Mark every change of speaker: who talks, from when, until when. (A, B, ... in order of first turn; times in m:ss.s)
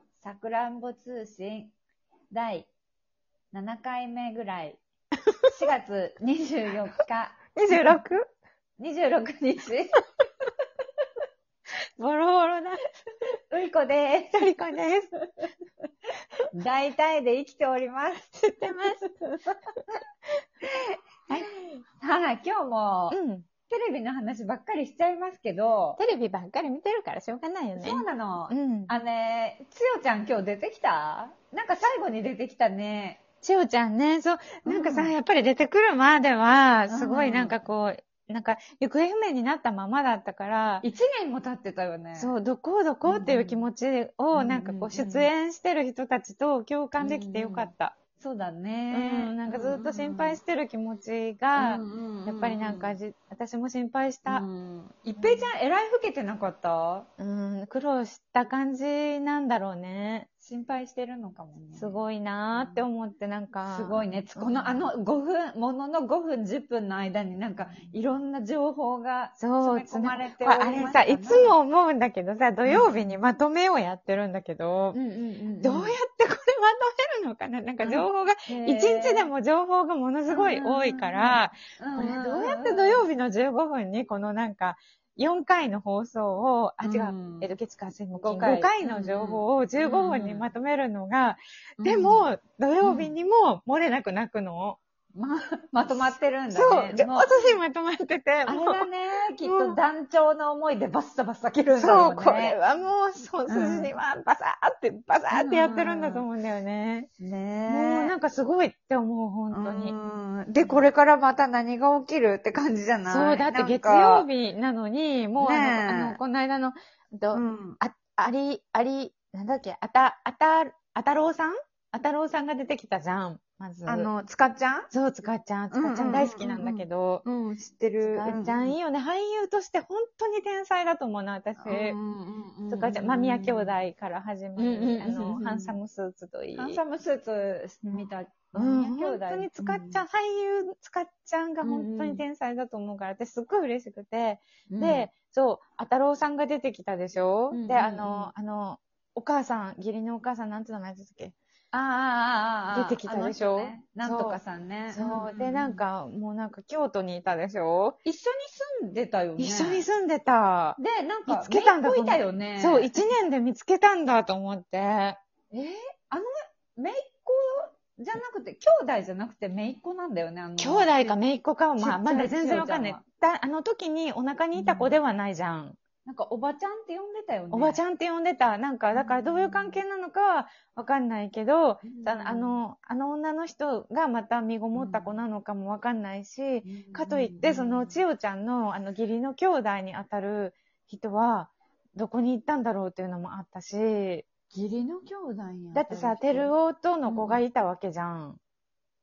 0:00.2-0:01.8 A
0:02.3-0:02.7 A
0:03.5-0:04.8 A
0:05.5-0:08.0 A
0:07.6-0:08.2 B
0:08.8-0:10.0 A
0:12.0-0:12.9 B
0:13.5-0:14.5 A
0:14.3-0:15.1 B
0:16.5-0:18.3 A
0:18.3-0:19.0 B
0:19.0-0:20.0 A
0:20.6-0:21.4 A
0:21.3-0:21.6 B
0:22.0-0:26.0 A
0:23.1-0:23.5 B
0:26.0-0:28.9 B
0:27.8-0:33.2 A
0:33.4-0:40.8 B
0:34.6-0:35.2 A
0:36.9-0:37.6 A
0:40.8-0:42.3 A
0:42.2-0:48.0 B
0:43.1-0:43.7 A
0:44.3-0:45.3 A
0:47.0-0:50.4 A
0:48.9-0:54.4 B
0:51.6-0:53.0 A
0:54.3-0:57.1 A
0:55.2-0:55.5 B
0:57.2-1:00.3 B
1:00.4-1:02.0 A
1:01.7-1:04.9 B
1:02.6-1:02.8 A
1:03.6-1:11.5 A
1:09.4-1:15.0 B
1:12.7-1:13.2 A
1:14.9-1:16.0 A
1:15.6-1:34.8 B
1:17.8-1:19.3 A
1:20.3-1:23.1 A
1:26.8-1:27.5 A
1:28.2-1:30.5 A
1:31.8-1:32.3 A
1:32.8-1:33.1 A
1:35.2-1:37.6 A
1:36.5-1:38.9 B
1:38.5-1:42.6 A
1:39.4-1:39.8 B
1:41.8-1:47.1 B
1:43.5-1:43.9 A
1:45.3-1:46.3 A
1:47.2-1:48.2 A
1:47.7-1:50.0 B
1:49.5-1:54.3 A
1:50.6-1:50.8 B
1:53.1-2:04.2 B
1:55.4-1:56.2 A
1:57.3-1:57.8 A
2:03.9-2:04.9 A
2:04.9-2:07.2 B
2:05.7-2:08.8 A
2:08.0-2:12.0 B
2:11.6-2:13.8 A
2:12.7-2:16.8 B
2:14.6-2:15.8 A
2:16.6-2:20.0 A
2:18.6-2:31.4 B
2:21.6-2:22.2 A
2:24.7-2:25.1 A
2:27.5-2:28.3 A
2:31.7-2:35.8 A
2:32.7-2:34.4 B
2:34.9-2:38.0 B
2:38.0-2:39.9 A
2:39.4-2:45.2 B
2:40.8-2:43.0 A
2:45.5-2:50.9 A
2:50.6-2:55.8 B
2:51.8-2:53.0 A
2:54.6-2:55.0 A
2:56.0-2:57.8 A
2:57.5-3:14.3 B
2:58.9-2:59.8 A
3:01.8-3:02.6 A
3:04.8-3:05.2 A
3:06.6-3:08.0 A
3:14.5-3:16.5 A
3:15.7-3:18.4 B
3:17.1-3:17.4 A